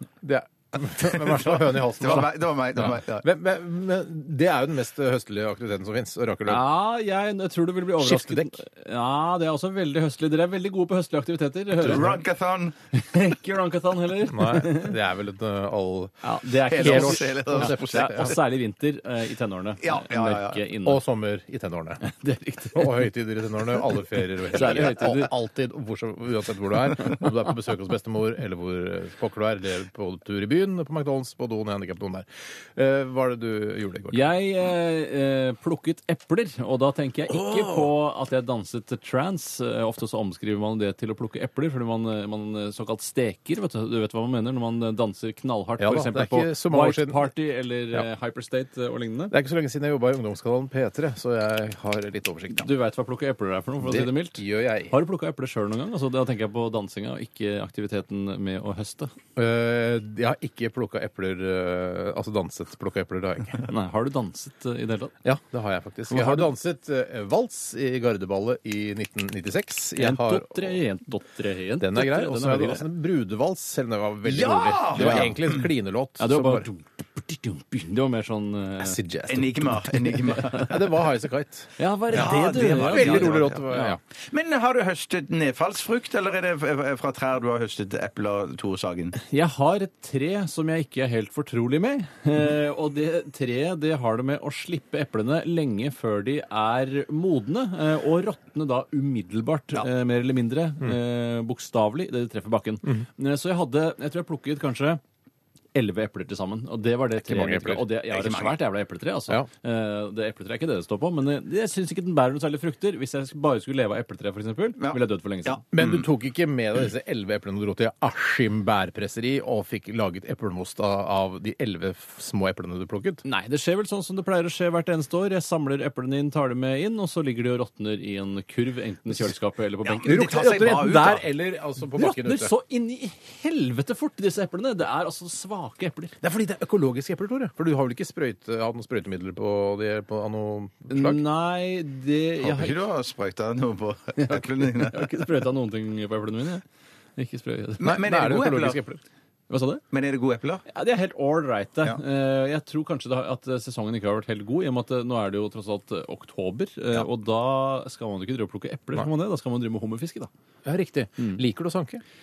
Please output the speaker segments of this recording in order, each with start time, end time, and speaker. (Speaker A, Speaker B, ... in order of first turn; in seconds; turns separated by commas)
Speaker A: 0.2-6.7, Speaker B: 1.1-3.3, Speaker C: 6.5-12.2, Speaker A: 8.0-8.6, Speaker A: 11.8-12.2, Speaker B: 11.8-12.8, Speaker C: 12.9-15.0, Speaker A: 14.3-18.4, Speaker C: 16.2-21.0, Speaker B: 16.7-18.3, Speaker B: 19.8-20.6, Speaker A: 20.8-22.0, Speaker C: 22.0-23.1, Speaker A: 22.7-34.4, Speaker C: 24.5-25.3, Speaker C: 34.1-49.3, Speaker B: 37.4-37.9, Speaker A: 45.8-47.3, Speaker A: 49.3-52.7, Speaker C: 52.5-59.1, Speaker A: 53.8-55.0, Speaker A: 59.4-63.7, Speaker C: 63.7-65.1, Speaker A: 65.2-70.8, Speaker C: 70.0-72.9, Speaker A: 71.8-76.7, Speaker B: 74.2-75.6, Speaker C: 75.0-75.3, Speaker C: 76.2-79.0, Speaker A: 78.8-84.0, Speaker B: 79.3-81.0, Speaker C: 81.8-84.0, Speaker B: 82.1-83.7, Speaker B: 84.3-89.2, Speaker C: 89.2-105.0, Speaker C: 105.8-115.6, Speaker A: 107.2-107.9, Speaker B: 108.1-108.6, Speaker B: 114.8-116.0, Speaker A: 115.7-123.2, Speaker C: 123.2-130.3, Speaker B: 129.8-131.2, Speaker A: 130.1-132.5, Speaker C: 131.9-136.2, Speaker A: 136.2-141.2, Speaker C: 140.9-142.8, Speaker B: 142.4-145.2, Speaker C: 144.2-146.6, Speaker C: 147.2-148.0, Speaker B: 147.8-148.8, Speaker A: 147.8-149.0, Speaker C: 149.5-149.8, Speaker B: 149.9-150.7, Speaker C: 150.7-160.3, Speaker A: 160.7-162.0